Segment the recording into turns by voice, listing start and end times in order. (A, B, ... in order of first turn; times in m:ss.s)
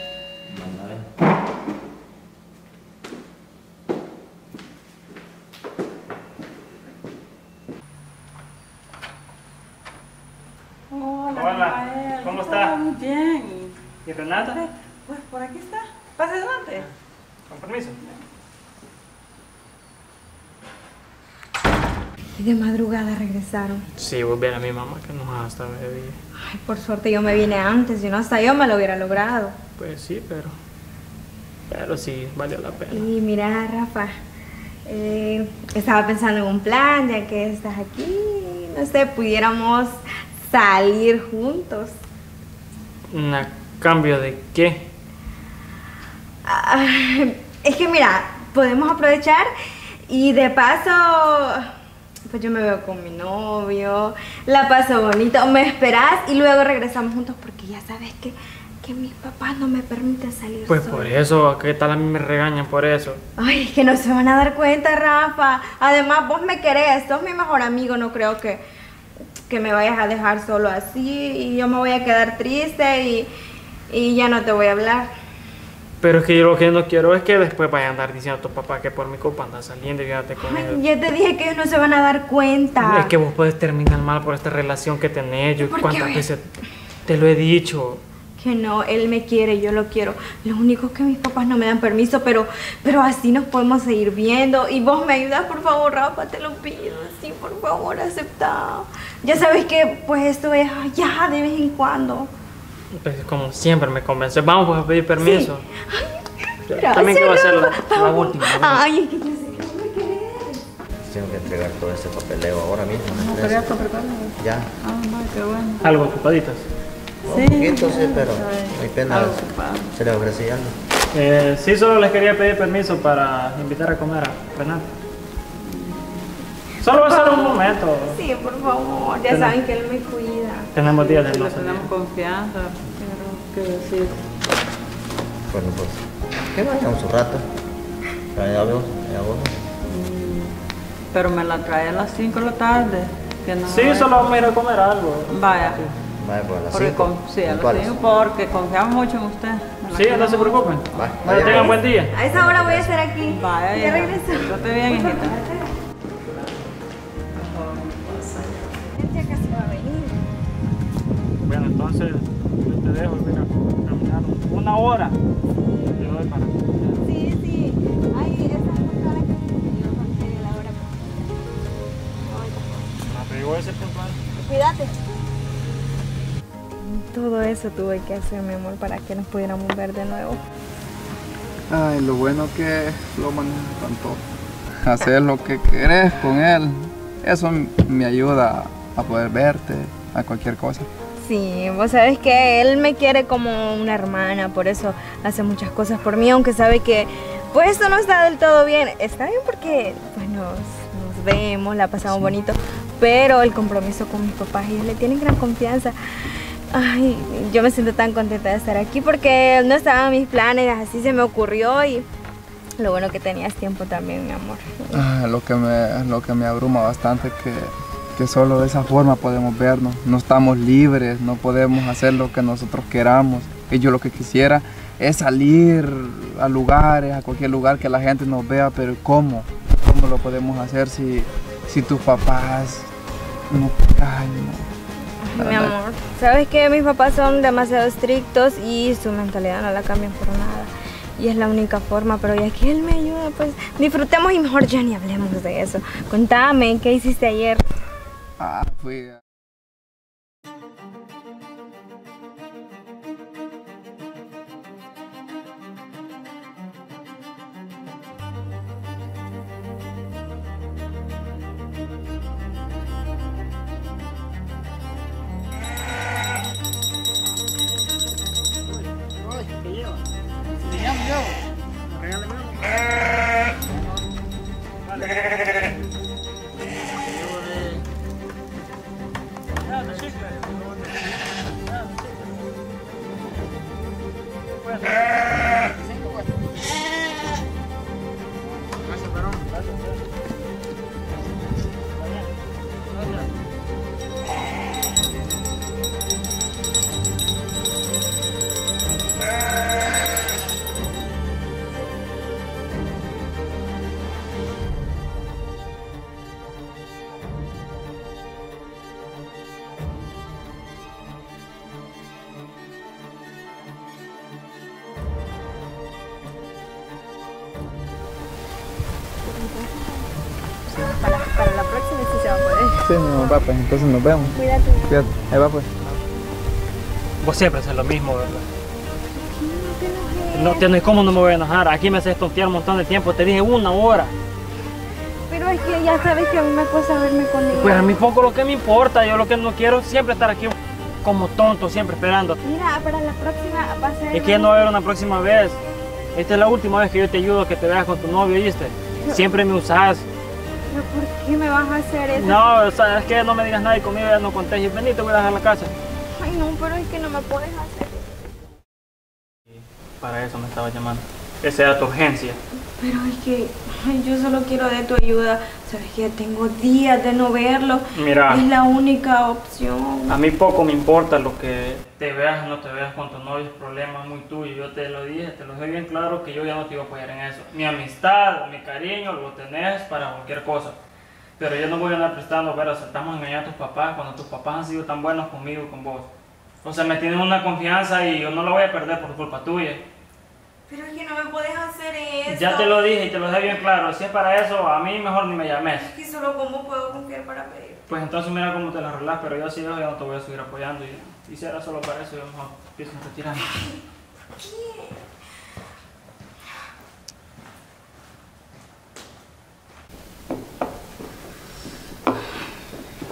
0:00.5-0:01.1 A
0:10.9-0:13.8 B
0:11.3-0:12.8 C
0:14.0-0:14.6 C
0:14.4-0:16.9 B
0:17.5-0:18.0 C
0:22.4-0:23.9 D
0:23.9-0:26.2 C
0:26.4-0:29.6 D
0:29.8-0:30.6 C
0:31.7-0:33.1 C
0:32.9-0:34.1 D
0:34.9-0:42.0 D
0:43.1-0:44.9 C
0:46.4-0:49.5 D
0:50.1-0:51.7 D
0:52.3-1:01.2 D
1:00.7-1:03.2 C
1:03.4-1:08.6 D
1:09.4-1:13.3 D
1:13.9-1:15.1 D
1:16.0-1:20.8 C
1:20.4-1:23.1 D
1:22.8-1:26.4 C
1:25.6-1:26.3 D
1:27.1-1:28.0 C
1:28.4-1:42.3 D
1:42.9-1:45.7 C
1:45.2-1:50.6 D
1:46.7-1:48.9 C
1:51.0-1:53.8 A
1:53.1-1:55.9 B
1:54.4-1:54.7 A
1:55.8-1:56.7 C
1:57.3-2:00.8 A
1:57.3-1:59.9 B
2:01.1-2:04.9 C
2:05.6-2:06.4 B
2:06.8-2:08.2 C
2:06.9-2:10.7 D
2:09.3-2:09.6 C
2:10.7-2:11.9 C
2:10.9-2:14.3 B
2:15.5-2:17.5 A
2:18.3-2:19.7 A
2:19.9-2:20.6 B
2:21.1-2:24.3 B
2:23.6-2:25.3 C
2:25.3-2:26.0 B
2:26.2-2:28.0 A
2:26.7-2:30.7 B
2:29.9-2:32.1 C
2:30.9-2:32.9 A
2:31.4-2:35.7 D
2:33.3-2:35.4 B
2:37.3-2:38.8 B
2:38.9-2:40.2 D
2:41.4-2:45.2 C
2:46.0-2:47.0 C
2:47.0-2:51.3 D
2:52.2-2:52.9 D
2:53.1-2:54.2 C
2:54.4-2:54.9 D
2:56.8-3:00.4 D
3:01.7-3:04.2 E
3:04.8-3:10.9 E
3:11.2-3:32.0 D
3:32.8-3:35.1 D
3:34.9-3:52.9 E
3:53.5-3:54.7 E
3:55.2-4:07.6 D
3:55.4-3:55.7 E
4:08.4-4:09.2 E
4:34.9-4:35.3 C
4:39.6-4:40.6 C
4:41.7-4:42.1 C
4:44.6-4:45.1 C
4:49.3-4:50.0 C
5:19.2-5:20.1 D
5:20.7-5:23.4 D
5:22.8-5:24.4 E
5:24.3-5:25.0 D
5:24.9-5:25.7 E
5:27.2-5:28.5 C
5:29.1-5:30.7 D
5:30.3-5:34.1 C
5:35.3-5:38.0 D
5:37.5-5:42.4 C
5:42.4-5:44.7 D
5:44.1-5:45.6 C
5:46.2-5:50.1 C
5:49.0-5:49.3 D
5:50.7-5:52.4 D
5:52.1-5:55.7 C
5:56.2-5:58.3 D
5:59.5-6:02.4 C
6:02.8-6:10.2 D
6:07.9-6:08.5 C
6:10.1-6:20.8 C
6:21.4-6:26.1 C
6:26.6-6:29.8 C
6:30.7-6:32.7 D
6:32.3-6:35.9 C
6:35.8-6:37.8 D
6:37.9-6:43.6 C
6:44.3-6:45.0 D